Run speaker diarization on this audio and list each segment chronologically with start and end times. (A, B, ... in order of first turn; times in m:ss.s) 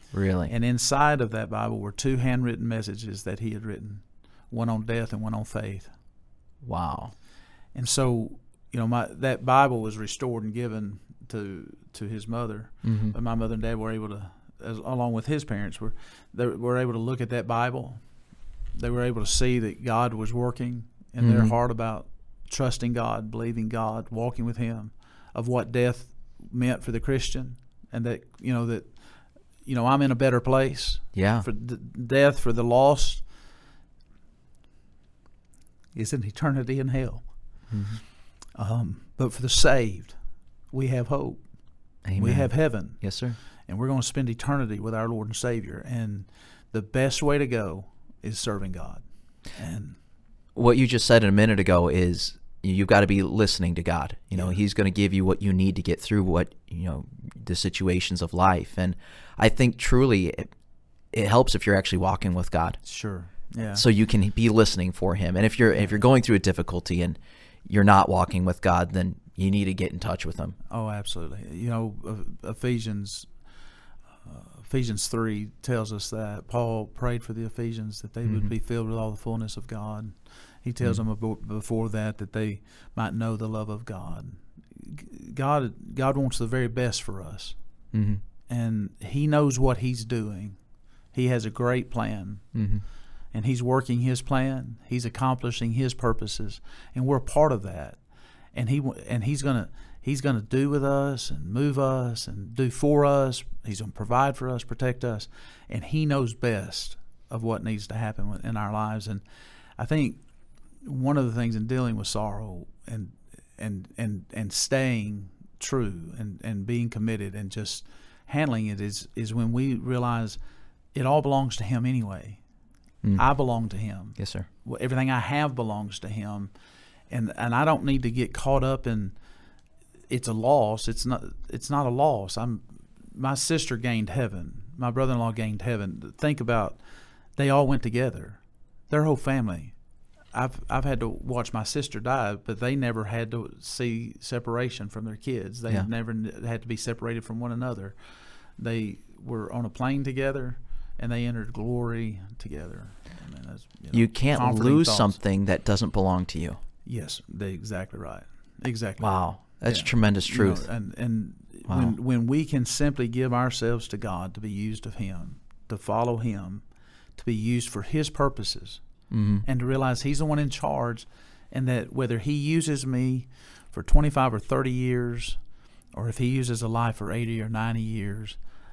0:00.1-0:00.5 A
0:00.4-0:05.9 B
0:06.6-0:07.2 A
0:07.7-0:33.3 B
0:12.8-0:13.2 A
0:21.2-0:21.6 A
0:31.1-0:31.5 A
0:35.9-0:37.8 B
0:37.7-0:38.0 A
0:38.5-0:50.0 B
0:42.0-0:43.4 A
0:50.6-1:00.5 A
0:54.3-0:54.6 B
1:01.1-1:02.8 A
1:02.8-1:03.8 B
1:03.6-1:10.6 A
1:10.7-1:13.4 B
1:14.2-1:27.6 B
1:18.2-1:18.5 A
1:27.9-1:28.2 A
1:28.5-1:49.2 B
1:32.5-1:32.8 A
1:49.8-1:50.2 B
1:50.8-2:00.4 B
2:00.9-2:02.4 B
2:03.2-2:06.5 B
2:04.2-2:04.5 A
2:07.1-2:09.2 B
2:10.1-2:16.8 B
2:17.4-2:19.8 B
2:20.3-2:35.2 B
2:33.9-2:36.6 A
2:36.8-2:48.9 B
2:39.0-2:40.9 A
2:41.7-2:42.0 A
2:49.1-2:49.5 A
2:49.4-2:58.4 B